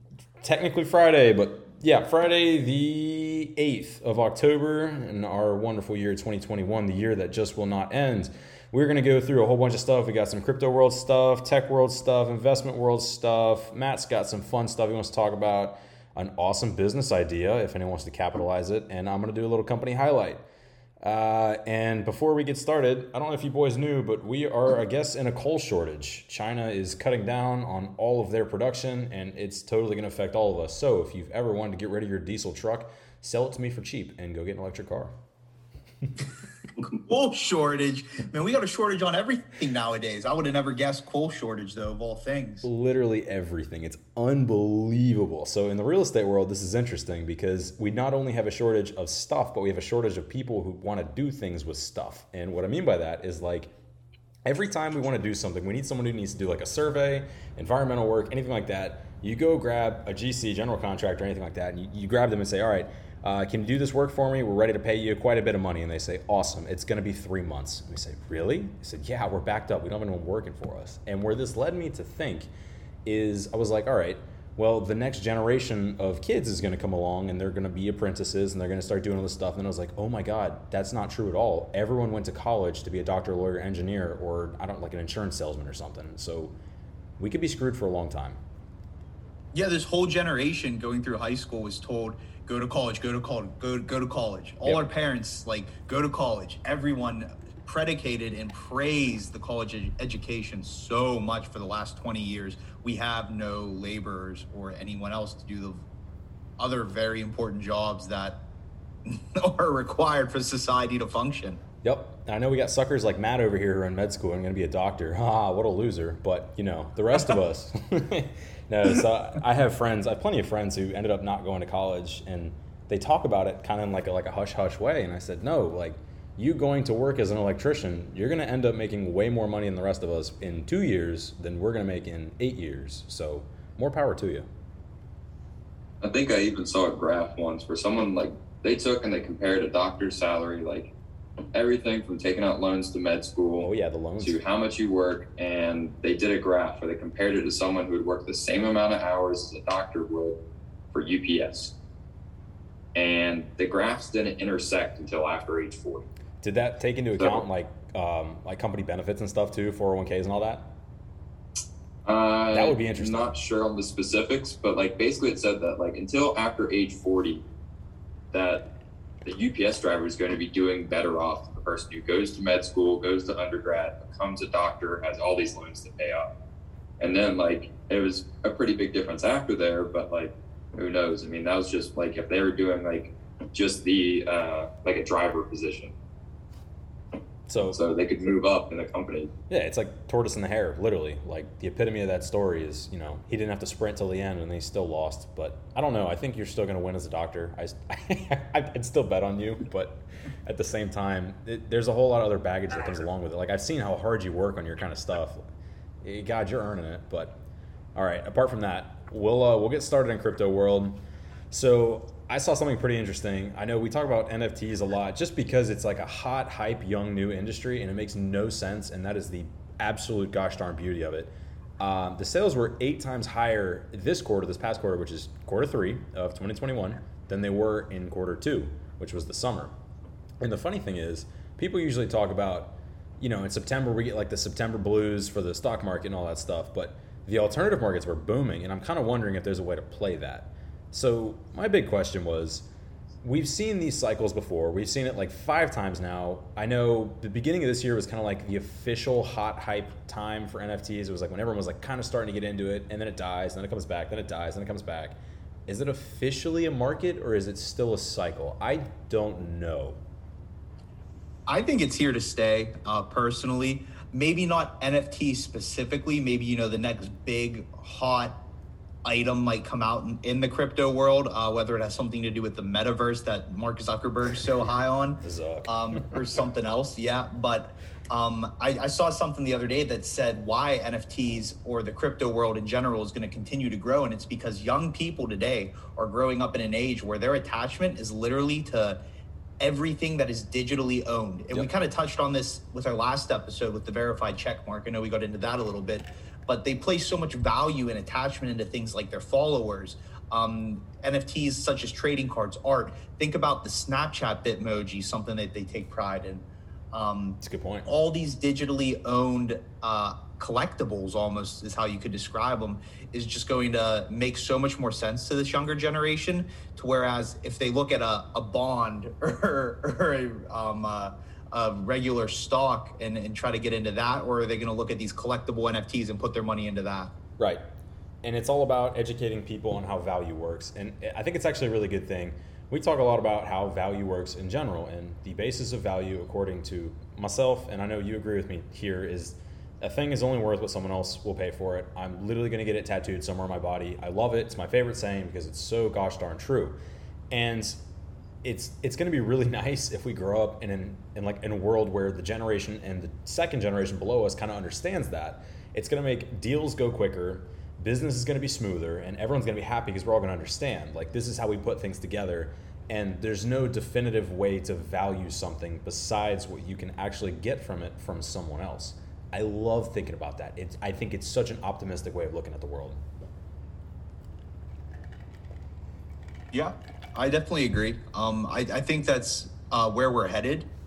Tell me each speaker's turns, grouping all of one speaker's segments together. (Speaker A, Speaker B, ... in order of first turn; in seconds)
Speaker A: 0.4-20.4, 21.0-35.1, 42.6-53.7, 54.5-72.5, 73.0-86.5, 87.2-88.4, 111.8-134.5, 143.6-144.4, 156.4-160.7, 162.5-163.3, 187.5-187.8, 189.5-205.4, 206.0-207.4, 207.9-211.0, 211.5-229.7, 230.4-242.7, 243.2-260.0, 275.2-276.2, 307.4-307.9, 328.2-346.8, 347.3-347.8, 348.4-373.0
Speaker B: 36.8-42.7, 89.5-105.8, 106.6-108.4, 109.0-111.6, 261.5-268.4, 269.0-289.0, 289.6-327.1, 376.5-380.7
Speaker C: 136.0-140.9, 141.5-143.7, 144.2-150.4, 150.9-151.7, 152.9-156.1, 162.0-167.4, 168.3-168.7, 169.2-176.3, 177.0-185.9, 187.6-189.3